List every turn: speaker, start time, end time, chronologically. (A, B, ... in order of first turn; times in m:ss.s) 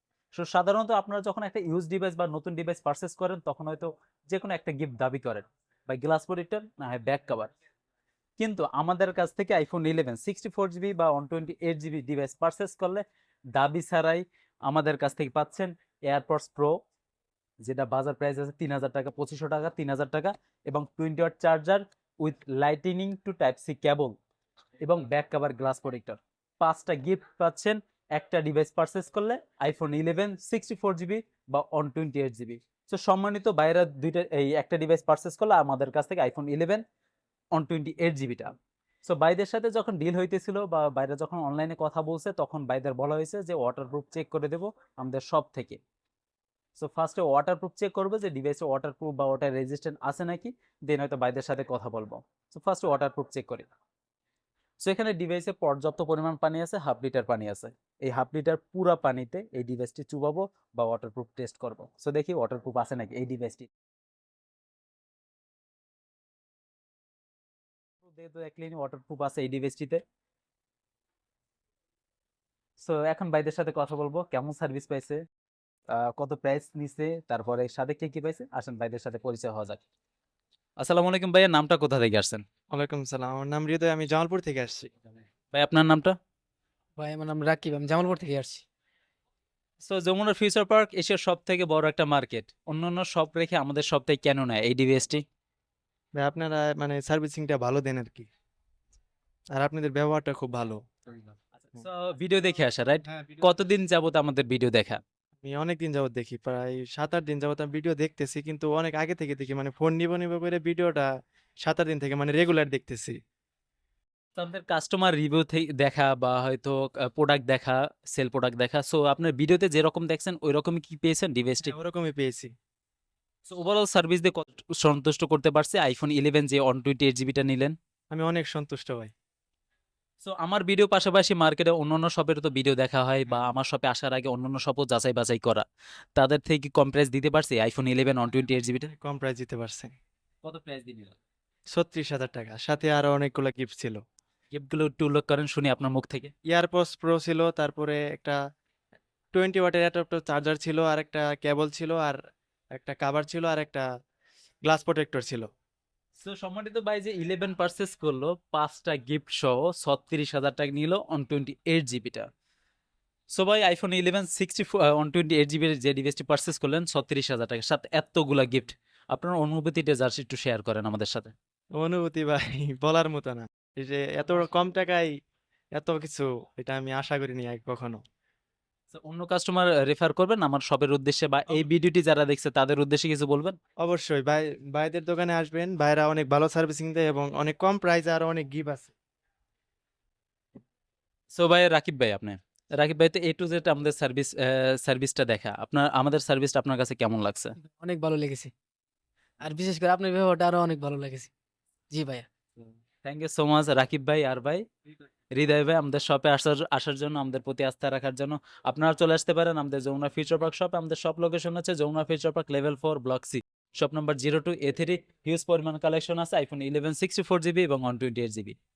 0:00.3-0:07.5 A
0:08.4-0:16.8 A
0:17.6-0:24.2 A
0:24.8-0:36.8 A
0:37.5-0:45.8 A
0:46.8-0:53.7 A
0:54.8-1:03.7 A
1:08.0-1:10.0 A
1:12.8-1:15.2 A
1:15.9-1:19.8 A
1:20.8-1:22.4 A
1:22.7-1:24.9 B
1:25.5-1:26.2 A
1:27.0-1:28.6 C
1:29.8-1:35.2 A
1:36.2-1:38.3 B
1:39.6-1:40.8 B
1:41.6-1:45.0 A
1:43.1-1:43.4 B
1:45.4-1:51.1 B
1:51.6-1:53.2 B
1:54.4-2:01.7 A
2:01.6-2:02.5 B
2:03.5-2:07.8 A
2:08.1-2:09.1 B
2:10.2-2:15.6 A
2:16.2-2:18.9 A
2:18.9-2:20.0 B
2:20.4-2:21.2 A
2:21.7-2:24.0 B
2:24.5-2:26.3 A
2:26.5-2:28.4 B
2:29.3-2:32.2 B
2:32.8-2:33.8 B
2:34.6-2:35.5 B
2:36.2-2:42.3 A
2:43.3-2:51.3 A
2:51.8-2:55.1 B
2:55.8-2:58.0 B
2:58.9-3:03.6 A
3:03.8-3:08.9 B
3:11.3-3:17.6 A
3:17.6-3:18.5 C
3:19.4-3:21.3 C
3:21.9-3:22.3 C
3:23.0-3:24.6 A
3:25.3-3:38.6 A